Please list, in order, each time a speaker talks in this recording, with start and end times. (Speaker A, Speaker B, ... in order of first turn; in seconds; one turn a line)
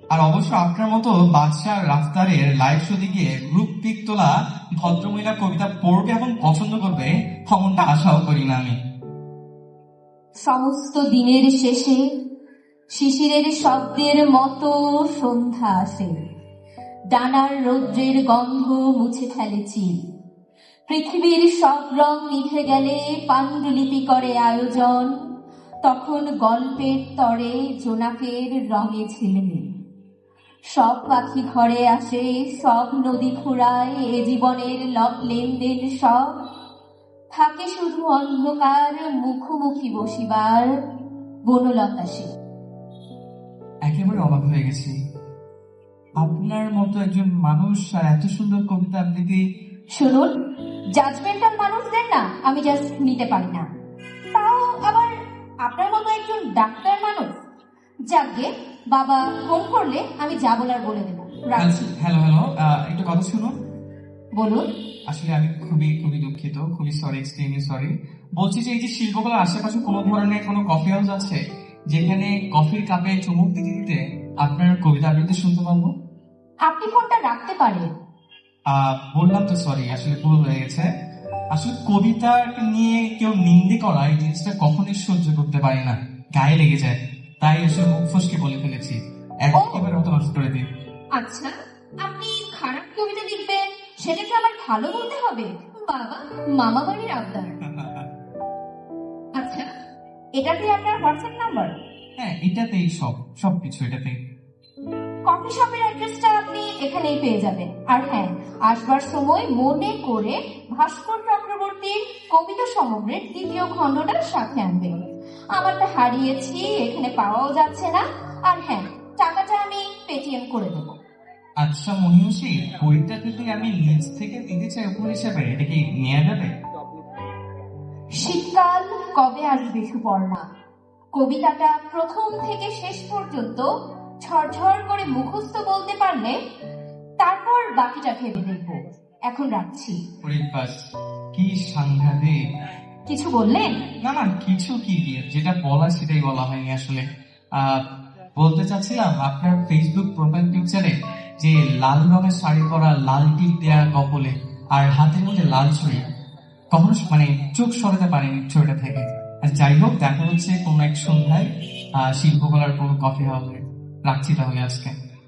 Speaker A: 0.1-8.7
Speaker B: 10.4-12.0
Speaker B: 13.0-16.1
Speaker B: 17.1-19.9
Speaker B: 20.9-25.1
Speaker B: 25.8-29.6
Speaker B: 30.7-36.3
Speaker B: 37.4-40.7
Speaker B: 41.5-42.3
Speaker A: 43.9-44.9
Speaker A: 46.2-49.4
Speaker B: 50.0-50.3
Speaker B: 51.0-53.6
Speaker B: 54.3-55.1
Speaker B: 55.6-57.3
Speaker B: 58.1-61.9
Speaker A: 61.6-63.5
Speaker B: 64.3-64.6
Speaker A: 65.1-75.9
Speaker B: 76.7-77.9
Speaker A: 78.7-80.9
Speaker A: 81.5-90.6
Speaker B: 89.5-89.9
Speaker B: 91.2-91.5
Speaker B: 92.0-97.6
Speaker A: 97.6-98.1
Speaker B: 99.4-99.7
Speaker B: 100.4-101.7
Speaker A: 102.2-104.2
Speaker B: 105.3-115.0
Speaker B: 115.5-121.0
Speaker A: 121.6-126.5
Speaker B: 128.1-130.4
Speaker B: 131.1-133.7
Speaker B: 134.2-136.3
Speaker B: 137.2-140.0
Speaker A: 140.2-140.8
Speaker A: 141.3-142.4
Speaker B: 143.1-143.7
Speaker A: 144.0-147.0
Speaker A: 147.6-147.8
Speaker A: 148.4-156.0
Speaker A: 156.7-164.9